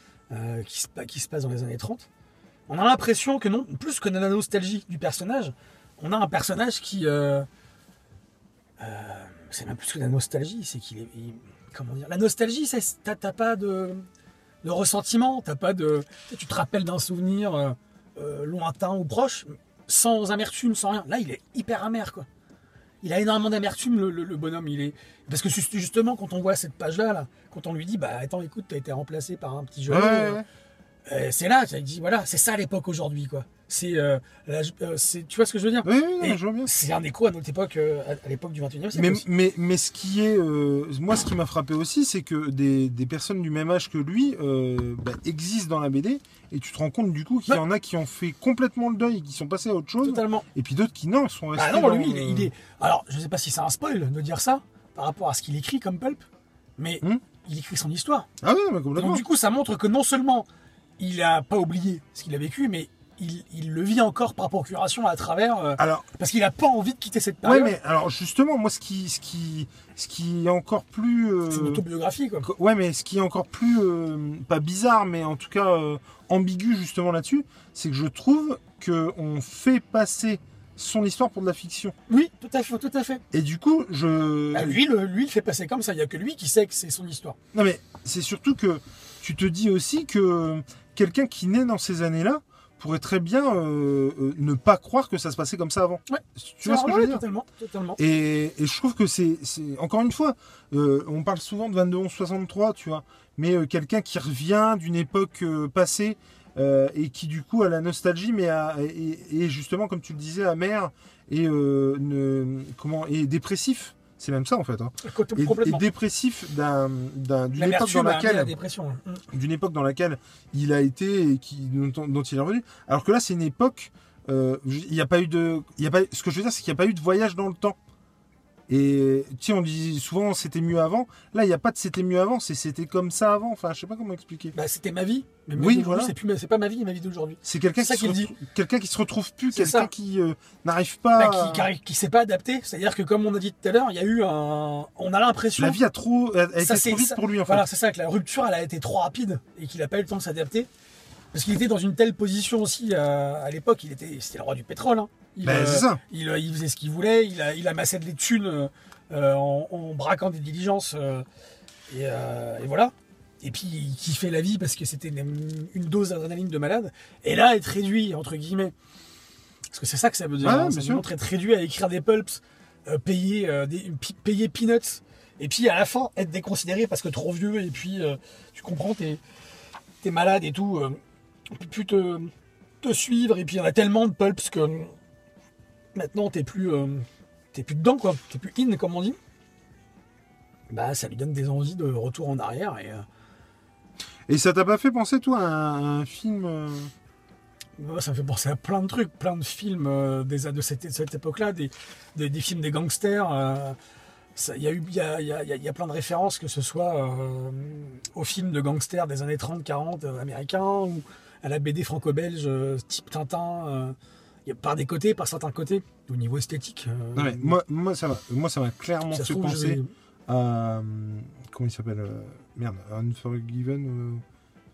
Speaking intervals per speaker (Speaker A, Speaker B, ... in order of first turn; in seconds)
Speaker A: 0.3-2.1, 2.7-7.5, 8.8-14.0, 14.6-22.2, 23.0-30.4, 31.1-39.2, 50.0-50.5, 51.5-56.2, 56.8-58.3, 59.0-60.5, 61.0-67.8, 71.5-72.5, 82.1-83.2, 84.5-87.4, 96.1-98.0, 115.0-115.8, 117.5-119.2, 134.5-138.3, 139.5-139.9, 141.2-145.8, 146.6-150.7, 151.3-161.2, 161.9-168.7, 169.7-179.2, 180.0-181.0, 181.5-182.3, 182.8-184.9, 185.9-189.2, 190.7-193.0, 197.8-203.8, 204.3-213.9, 214.4-217.6, 219.1-219.9
Speaker B: 29.9-30.4, 35.8-36.7, 38.9-52.5, 58.4-59.2, 65.8-66.0, 67.4-71.8, 72.4-81.9, 83.3-84.8, 87.5-97.2, 98.0-118.5, 119.3-127.8, 128.7-134.5, 135.6-136.1, 137.4-141.7, 145.6-147.7, 155.4-156.0, 170.4-171.1, 194.3-196.9, 217.2-224.2